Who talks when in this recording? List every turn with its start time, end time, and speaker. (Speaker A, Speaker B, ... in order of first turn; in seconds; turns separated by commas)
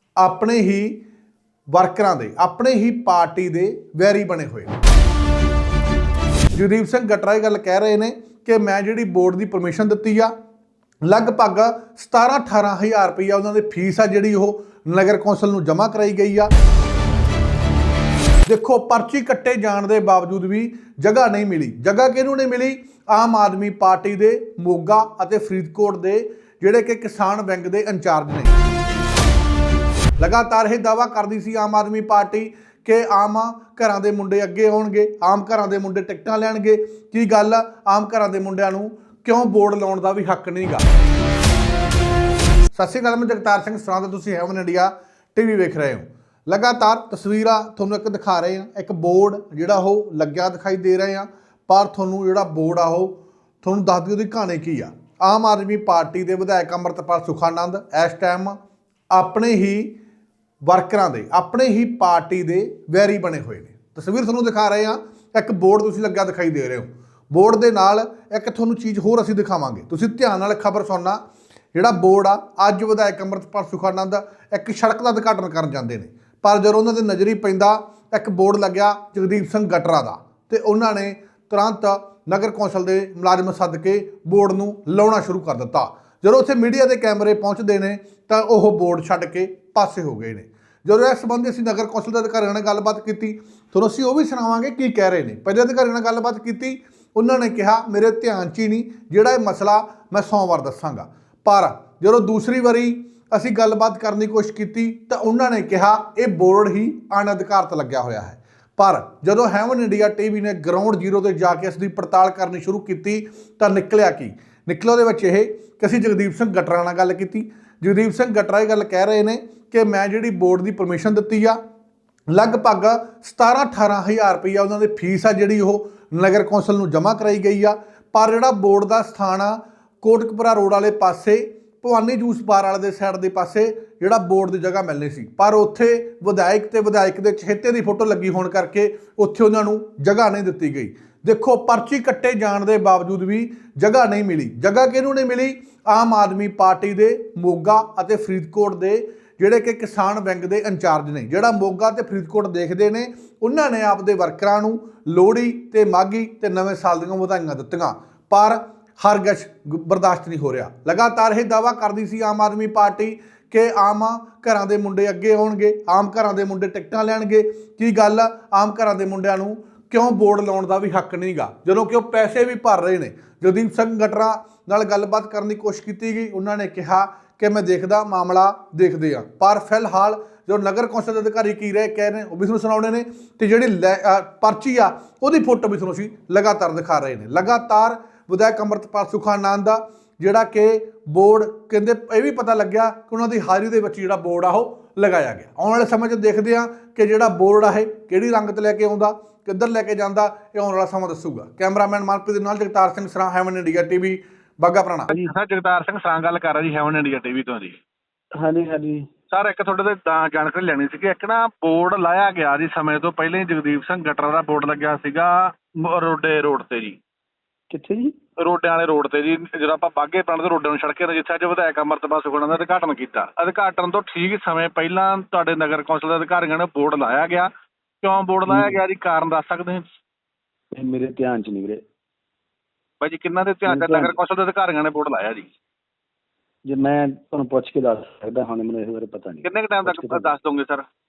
Speaker A: 0.2-1.0, Speaker A: 1.7-4.7, Speaker A: 6.5-10.3, Speaker A: 11.1-16.5, Speaker A: 18.5-28.6, Speaker A: 30.2-40.8, Speaker A: 42.7-58.6, Speaker A: 59.1-59.9, Speaker A: 60.6-71.2, Speaker A: 71.7-121.6, Speaker A: 122.3-205.1, Speaker B: 205.1-207.8, Speaker C: 208.3-209.1, Speaker B: 209.3-217.0, Speaker C: 217.7-218.2, Speaker B: 218.4-227.5, Speaker B: 228.0-229.9, Speaker C: 228.5-228.8, Speaker C: 230.7-231.8, Speaker B: 233.0-235.5, Speaker C: 233.7-234.2, Speaker C: 236.7-240.3, Speaker B: 239.4-240.9